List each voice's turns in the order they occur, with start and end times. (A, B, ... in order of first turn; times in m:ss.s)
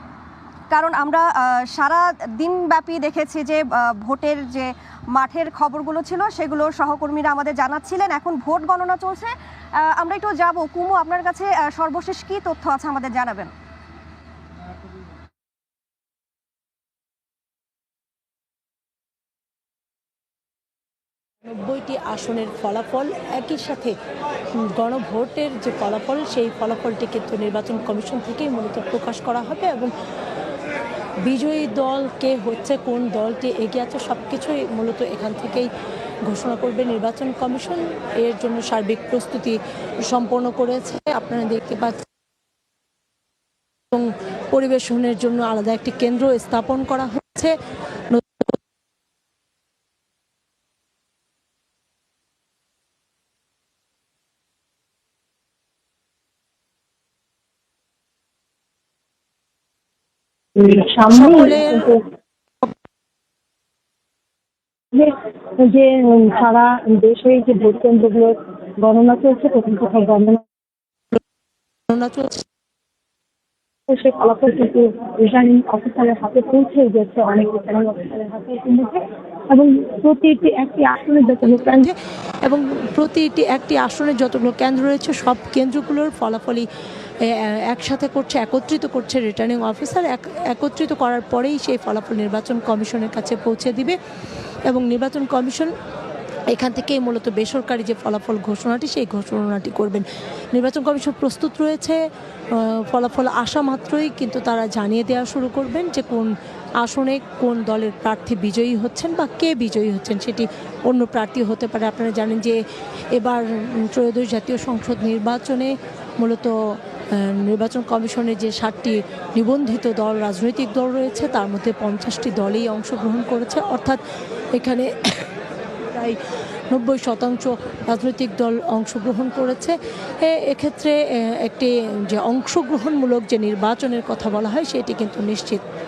0:00.7-0:13.5 A
0:21.4-0:24.0 B
0:24.7-0:29.9 B
0:31.2-0:35.7 B
0:36.3-0:42.0 B
0:43.9-0:47.5 B
0:48.1-0:48.5 B
1:00.6-1:02.0 C
1:01.1-1:01.9 B
1:04.9-1:10.4 C
1:11.9-1:12.4 B
1:13.9-1:21.8 C
1:21.4-1:26.7 B
1:27.2-1:34.0 B
1:34.7-1:35.7 B
1:36.5-1:42.0 B
1:42.5-1:52.6 B
1:53.1-2:04.0 B
2:04.5-2:05.3 B
2:05.9-2:06.2 B
2:06.7-2:15.6 B